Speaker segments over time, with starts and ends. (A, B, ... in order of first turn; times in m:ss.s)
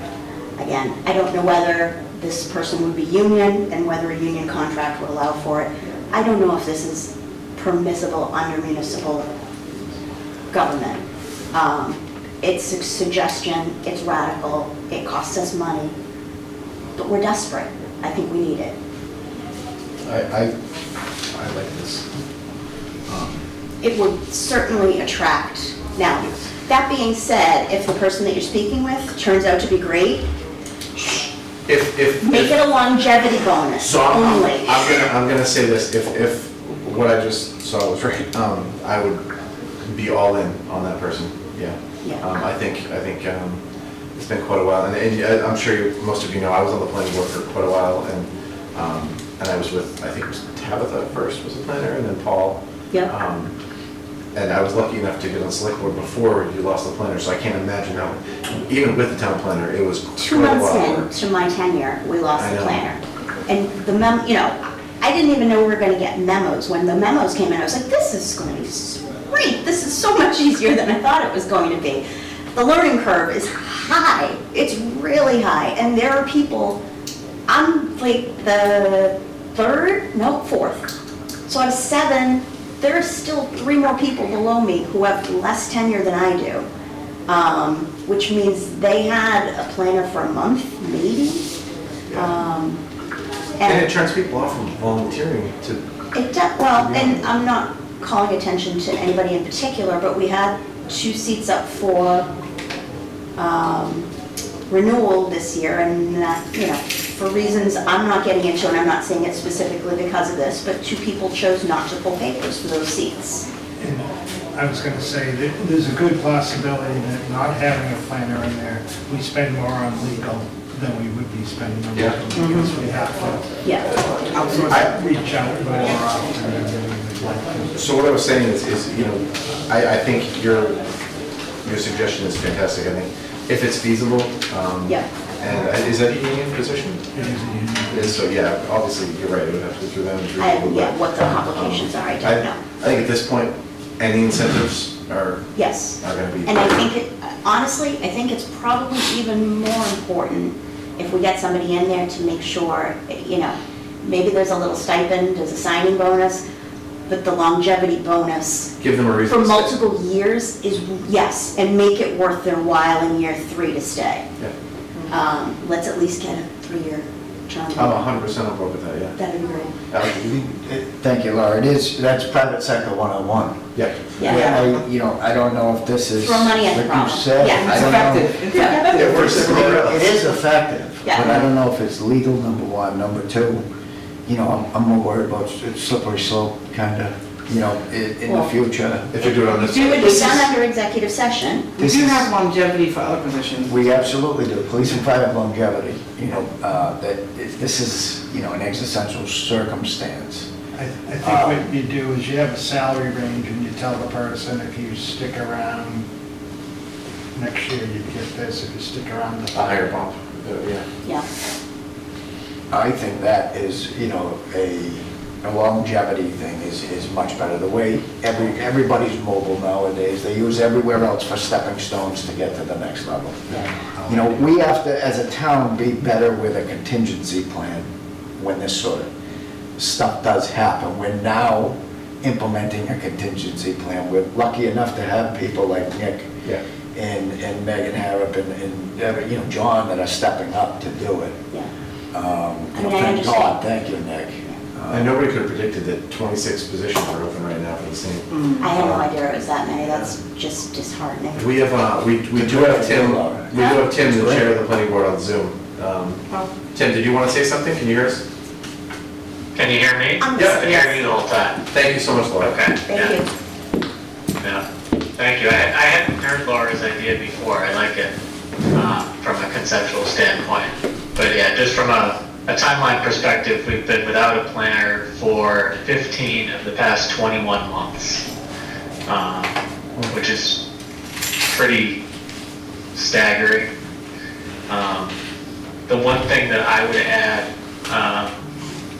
0:00.6-0:09.3 A
0:10.5-0:11.0 A
0:11.5-0:15.9 A
0:17.0-0:18.7 A
0:20.0-0:20.5 B
0:21.3-0:22.0 B
0:23.1-0:23.4 B
0:23.8-0:30.2 A
0:26.2-0:26.4 B
0:31.7-0:32.6 B
0:32.2-0:34.8 A
0:33.8-0:39.2 B
0:39.8-0:43.6 B
0:44.2-0:53.5 B
0:54.3-1:01.1 B
1:00.2-1:16.8 A
1:02.3-1:02.8 B
1:17.5-1:20.9 A
1:21.5-1:26.6 A
1:27.3-1:31.5 A
1:32.1-1:32.8 A
1:33.6-1:33.9 A
1:33.6-1:35.8 B
1:36.1-1:42.3 A
1:36.7-1:37.2 B
1:43.4-1:44.1 A
1:44.7-1:53.5 A
1:53.8-2:03.6 C
2:02.3-2:02.7 A
2:03.6-2:03.9 A
2:03.9-2:04.9 B
2:04.5-2:07.9 C
2:07.7-2:10.8 B
2:11.6-2:17.0 B
2:17.1-2:18.2 C
2:17.9-2:25.5 B
2:20.4-2:22.6 A
2:25.6-2:36.4 A
2:26.0-2:26.8 B
2:37.1-2:38.7 A
2:38.8-2:39.7 B
2:39.3-2:44.2 A
2:45.1-2:48.0 A
2:47.7-2:49.2 B
2:49.2-2:49.7 A
2:49.9-2:50.4 B
2:50.4-2:53.6 D
2:53.7-2:54.2 B
2:54.2-2:54.6 A
2:54.2-3:03.6 D
2:54.3-2:54.7 E
2:56.2-2:57.8 A
2:57.5-2:59.3 E
2:58.5-2:58.9 A
2:58.9-3:00.0 B
3:01.0-3:01.3 A
3:04.2-3:09.2 D
3:09.1-3:10.5 B
3:09.6-3:11.7 A
3:11.8-3:13.7 E
3:11.8-3:12.3 D
3:13.6-3:20.5 D
3:20.7-3:26.0 C
3:21.2-3:21.6 D
3:27.3-3:29.8 C
3:29.5-3:30.8 B
3:32.7-3:47.9 D
3:43.6-3:44.4 C
3:48.4-3:49.1 D
3:49.8-3:56.3 D
3:56.9-4:01.4 D
4:02.1-4:05.1 D
4:02.7-4:03.6 A
4:04.9-4:09.1 B
4:08.6-4:11.5 A
4:11.3-4:18.2 B
4:12.3-4:14.5 D
4:13.5-4:13.8 A
4:19.5-4:21.6 F
4:20.2-4:21.0 A
4:20.4-4:20.6 B
4:21.7-4:22.6 B
4:22.4-4:23.2 F
4:22.9-4:23.3 A
4:24.4-4:24.6 F
4:25.2-4:28.1 F
4:28.7-4:38.2 F
4:39.0-4:39.5 F
4:40.1-4:40.6 F
4:41.5-4:42.0 F
4:42.9-4:43.7 F
4:44.7-4:45.1 F
4:45.9-4:48.3 F